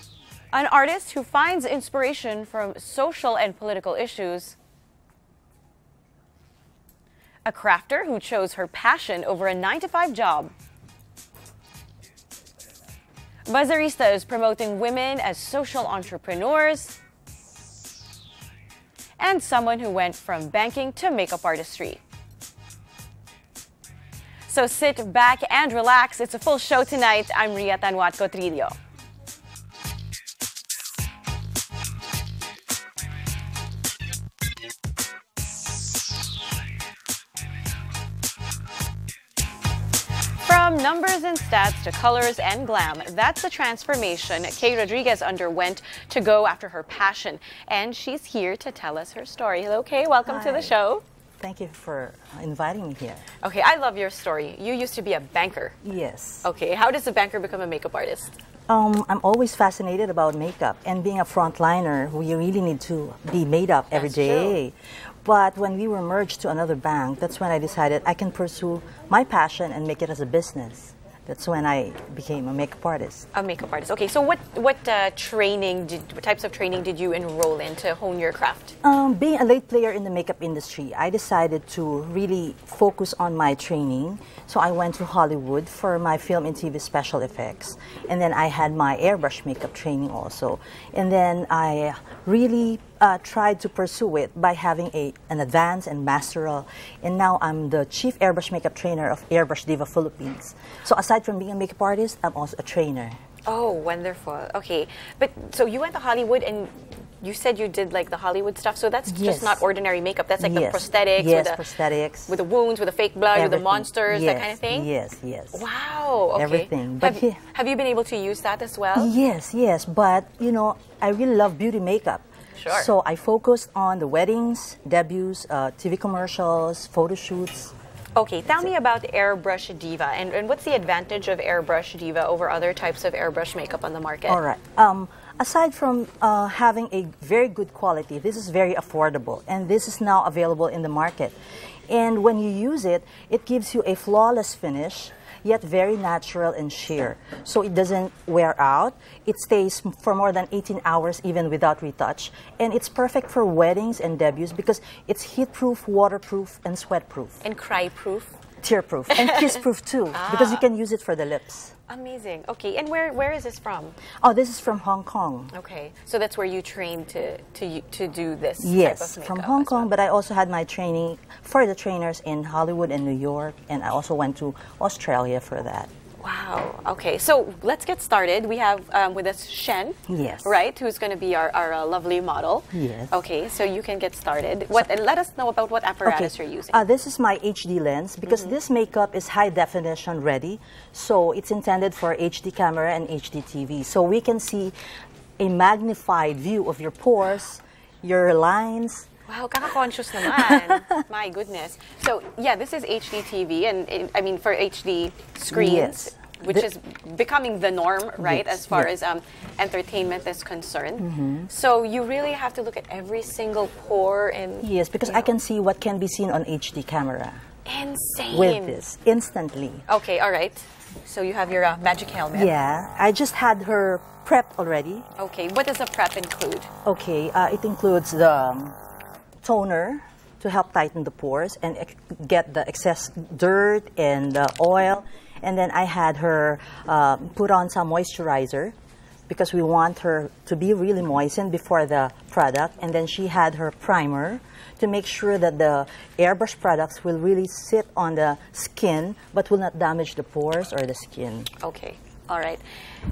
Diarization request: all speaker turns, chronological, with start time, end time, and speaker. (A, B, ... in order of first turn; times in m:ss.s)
0:00.5-0:04.6 A
0:07.5-0:10.5 A
0:13.5-0:17.0 A
0:19.2-0:22.0 A
0:24.5-0:28.8 A
0:40.4-0:51.0 A
0:50.3-0:50.7 B
0:51.4-0:53.2 B
0:53.4-0:55.8 A
0:55.8-0:56.5 B
0:56.4-0:58.3 A
0:58.7-1:13.3 B
1:03.9-1:04.6 A
1:13.3-1:18.8 A
1:18.8-1:43.2 B
1:43.5-1:51.6 A
1:49.1-1:49.6 B
1:50.4-1:52.4 B
1:52.3-1:54.9 A
1:53.3-1:55.7 B
1:55.5-1:59.1 A
1:56.4-1:57.4 B
1:59.0-2:07.7 B
2:02.6-2:02.9 A
2:08.2-2:14.4 A
2:14.3-2:21.4 B
2:21.9-2:37.4 B
2:37.4-2:38.4 A
2:38.6-2:41.7 B
2:39.1-2:39.6 A
2:40.1-2:40.6 A
2:41.9-2:44.0 A
2:44.2-2:45.5 B
2:45.5-2:49.9 A
2:48.6-2:55.9 B
2:56.2-3:06.9 A
3:00.1-3:00.6 B
3:02.7-3:03.1 B
3:06.0-3:14.8 B
3:08.3-3:08.6 A
3:15.4-3:19.1 B
3:19.3-3:35.3 A
3:20.2-3:20.8 B
3:25.5-3:26.7 B
3:28.2-3:28.9 B
3:31.0-3:31.5 B
3:34.6-3:37.4 B
3:37.7-3:38.8 A
3:38.3-3:39.8 B
3:39.9-3:42.6 A
3:42.3-3:45.1 B
3:45.2-3:46.7 A
3:46.8-3:48.8 B
3:49.4-3:58.7 B
3:59.3-4:11.5 B
4:11.6-4:12.6 A